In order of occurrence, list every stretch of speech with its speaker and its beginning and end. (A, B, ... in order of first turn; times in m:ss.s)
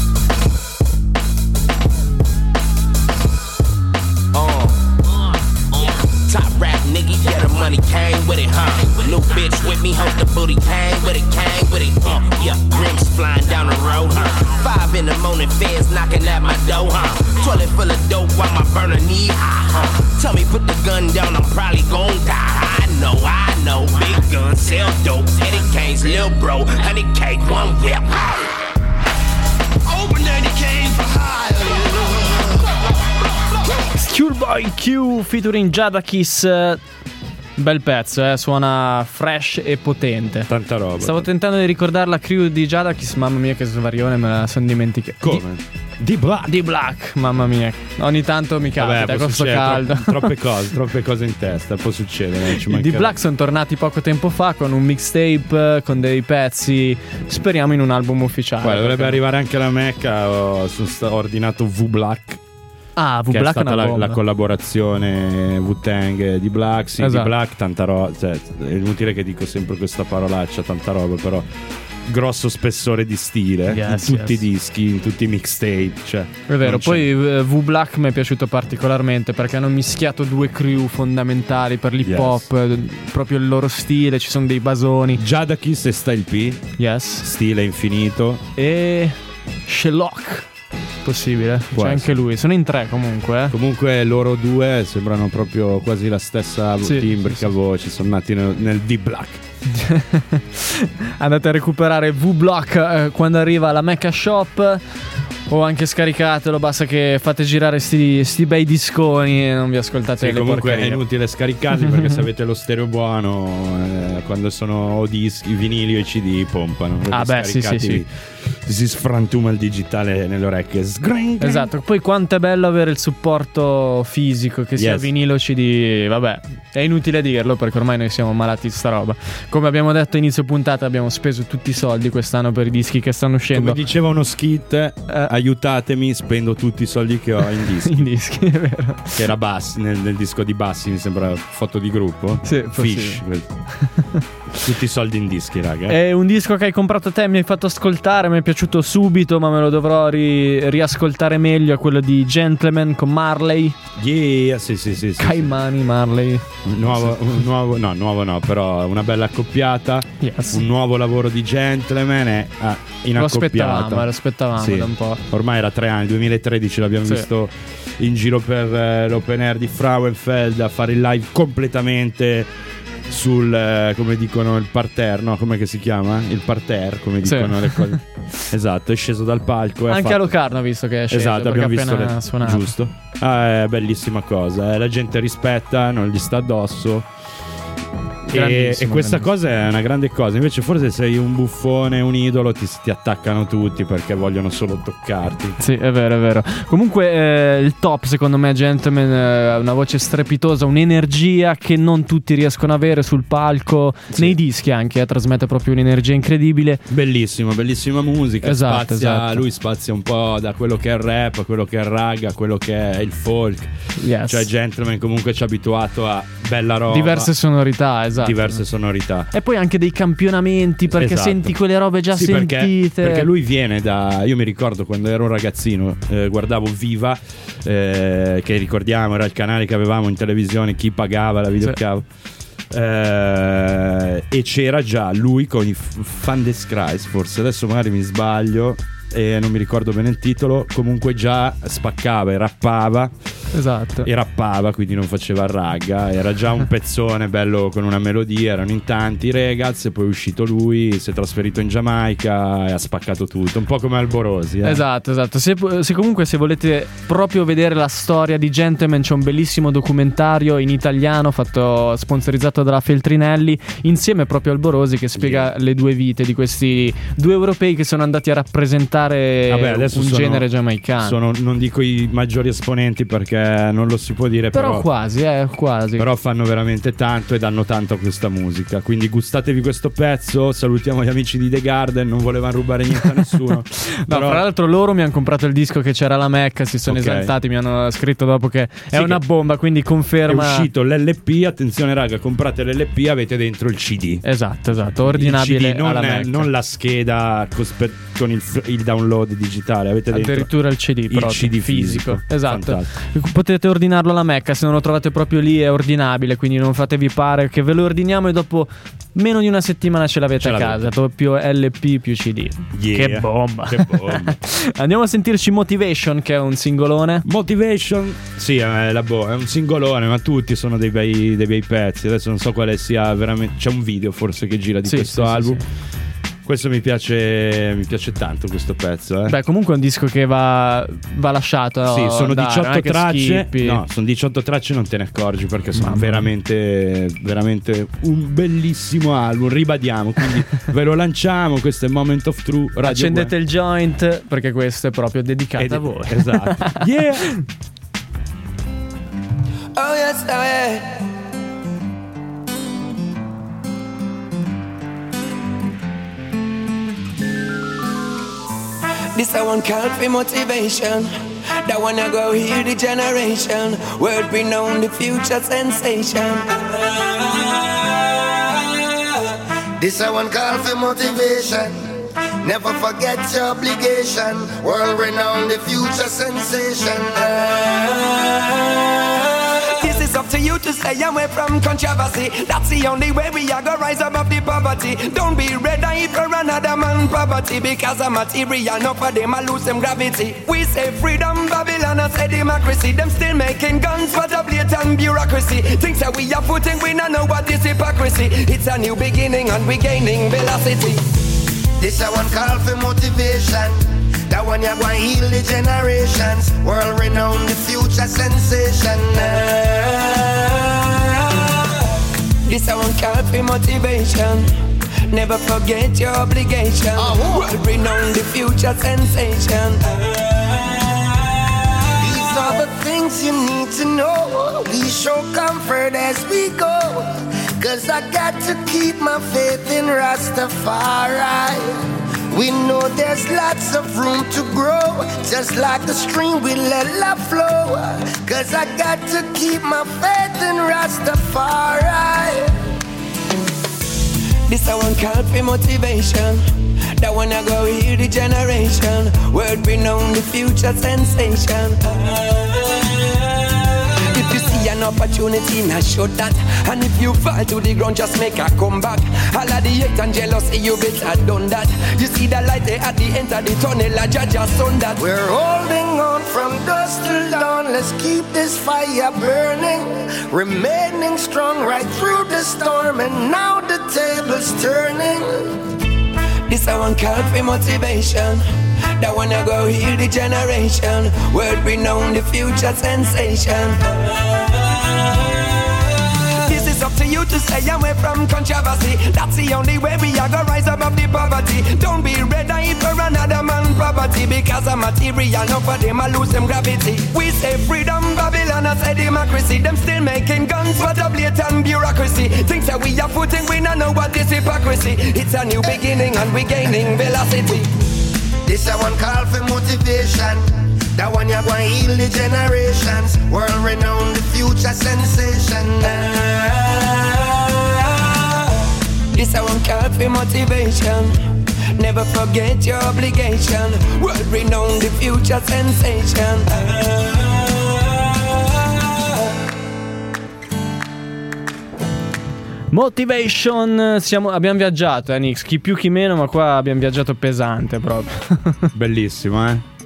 0:04.3-0:04.8 A
0:05.7-0:28.4 A
0:33.9-0:36.8 B
0:37.6-0:45.4 B
0:40.5-0:41.3 C
0:45.2-0:46.6 C
0:46.5-0:50.3 B
0:48.8-0:53.2 C
0:52.5-0:59.2 B
0:58.6-1:02.4 C
1:03.0-1:04.2 B
1:03.3-1:11.5 C
1:07.0-1:07.3 B
1:12.1-1:17.1 C
1:13.7-1:14.4 B
1:16.5-1:25.2 B
1:22.0-1:22.4 C
1:25.2-1:26.7 C
1:26.8-1:27.3 B
1:27.2-1:28.4 C
1:28.6-1:30.5 B
1:31.0-1:33.5 B
1:31.7-1:32.2 C
1:33.5-1:39.4 C
1:36.8-1:37.5 B
1:39.7-1:44.8 B
1:45.5-1:51.0 B
1:50.2-2:01.7 C
1:51.8-1:52.2 B
1:57.1-1:58.0 B
2:01.4-2:13.8 B
2:04.8-2:05.1 C
2:13.5-2:18.1 C
2:17.8-2:19.2 B
2:19.2-2:23.5 C
2:22.4-2:23.2 B
2:23.8-2:24.2 B
2:24.6-2:26.0 C
2:25.9-2:33.8 B
2:34.0-2:35.5 C
2:35.2-2:37.2 B
2:36.6-2:52.5 C
2:40.2-2:40.6 B
2:43.2-2:45.2 B
2:53.1-3:00.3 C
2:57.2-2:58.0 B
2:59.9-3:02.7 B
3:01.1-3:07.1 C
3:08.3-3:09.3 B
3:08.3-3:15.6 C
3:15.6-3:26.8 B
3:26.9-3:33.7 C
3:28.4-3:29.4 B
3:34.0-3:34.5 B
3:34.3-3:37.3 C
3:36.9-3:38.6 B
3:38.2-3:39.3 C
3:39.3-3:43.3 B
3:40.9-3:41.5 C
3:42.1-3:52.1 C
3:52.7-4:03.1 C
4:03.5-4:04.1 B
4:04.0-4:14.8 C
4:14.6-4:31.2 B
4:25.2-4:25.5 C
4:29.5-4:30.5 C
4:31.0-4:34.9 C
4:34.5-4:36.1 B
4:36.0-4:44.4 C
4:44.1-4:50.7 B
4:46.9-4:47.3 C
4:48.9-4:49.2 C
4:50.3-4:54.2 C
4:54.2-4:56.5 B
4:54.8-5:00.5 C
5:00.1-5:17.2 B
5:01.1-5:02.9 C
5:10.4-5:10.8 C
5:12.7-5:14.4 C
5:17.2-5:25.6 C
5:24.9-5:25.6 B
5:26.4-5:29.4 C
5:29.3-5:33.8 B
5:31.9-5:43.3 C
5:35.8-5:36.3 B
5:42.8-5:46.8 B
5:45.6-5:47.3 C
5:49.8-5:51.0 D
5:59.2-6:06.5 D
6:09.8-6:11.8 E
6:12.4-6:17.6 E
6:19.8-6:41.0 D
6:41.8-6:49.4 E
6:49.4-6:50.2 D
6:52.5-6:54.5 D
6:55.1-6:59.8 D
6:57.0-6:57.6 E
7:02.0-7:11.7 E
7:12.3-7:22.5 E
7:24.5-7:26.5 D
7:27.0-7:32.2 D
7:34.1-7:45.0 D
7:45.0-7:55.5 E
7:56.5-7:58.4 D
7:59.0-8:03.8 D
8:06.4-8:27.7 D
8:28.4-8:36.2 E
8:39.1-8:41.2 D
8:41.8-8:46.5 D
8:52.7-8:58.7 B
8:58.7-8:59.6 C